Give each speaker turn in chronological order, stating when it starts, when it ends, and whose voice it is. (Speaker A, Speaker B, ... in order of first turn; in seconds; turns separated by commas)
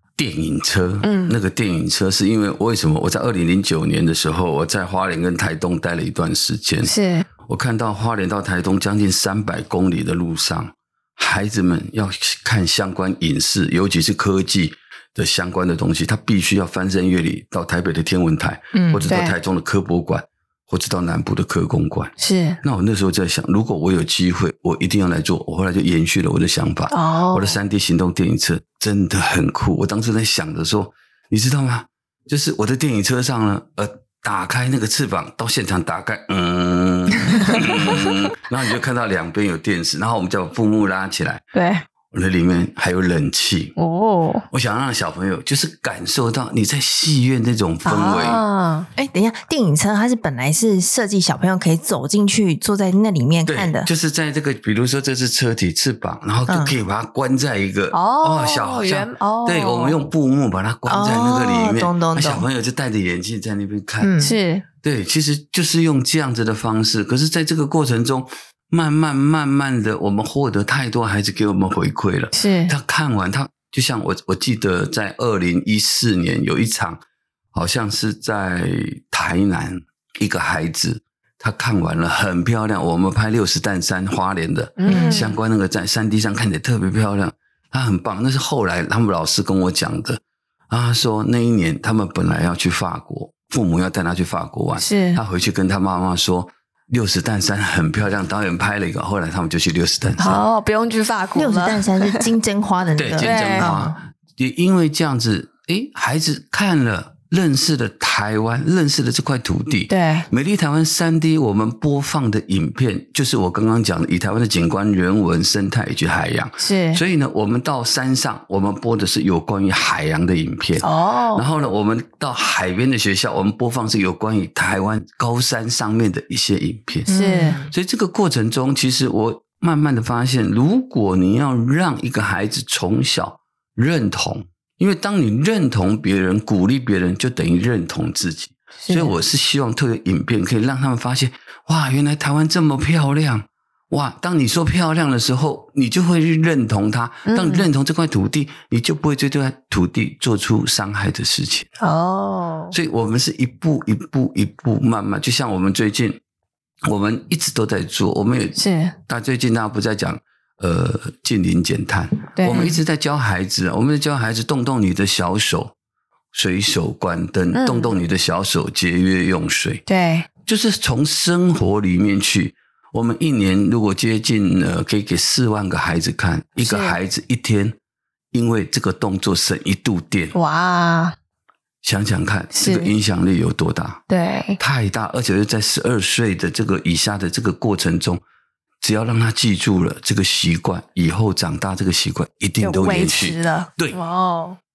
Speaker A: 0.2-6.9, Speaker B: 1.0-1.4, Speaker B: 6.8-7.3, Speaker A: 7.5-41.4, Speaker C: 18.7-19.1, Speaker B: 19.1-19.4, Speaker B: 22.2-22.6, Speaker B: 26.9-27.6, Speaker B: 41.5-41.8, Speaker A: 42.1-43.8, Speaker B: 43.8-44.4, Speaker A: 44.5-48.4, Speaker B: 47.8-48.9, Speaker C: 49.0-53.9, Speaker A: 53.5-64.2, Speaker C: 56.5-56.7, Speaker B: 57.9-60.0, Speaker C: 60.9-62.5, Speaker C: 64.0-64.3, Speaker B: 64.2-64.6, Speaker A: 64.8-77.0, Speaker B: 72.3-72.7, Speaker A: 77.5-100.4, Speaker B: 84.8-85.4, Speaker C: 84.9-85.3, Speaker B: 94.8-95.2, Speaker B: 100.2-102.3, Speaker C: 101.3-103.9, Speaker A: 103.0-127.1, Speaker B: 103.2-103.7, Speaker B: 109.9-110.3, Speaker B: 116.6-117.0, Speaker B: 120.8-121.5, Speaker C: 127.1-127.7, Speaker B: 127.1-127.6, Speaker A: 127.7-151.7, Speaker B: 138.8-139.2, Speaker B: 147.2-147.7, Speaker B: 151.8-152.7, Speaker A: 152.7-156.2, Speaker A: 156.8-165.7, Speaker B: 158.6-158.9, Speaker B: 162.3-162.8, Speaker A: 166.3-169.8, Speaker B: 167.5-167.9, Speaker B: 169.9-170.3, Speaker A: 170.4-177.8, Speaker B: 176.6-177.0, Speaker A: 178.3-180.3, Speaker B: 180.3-181.1, Speaker A: 181.8-184.0, Speaker B: 182.5-182.9, Speaker B: 184.1-184.6, Speaker A: 184.6-188.2, Speaker A: 188.8-194.0, Speaker B: 192.6-194.6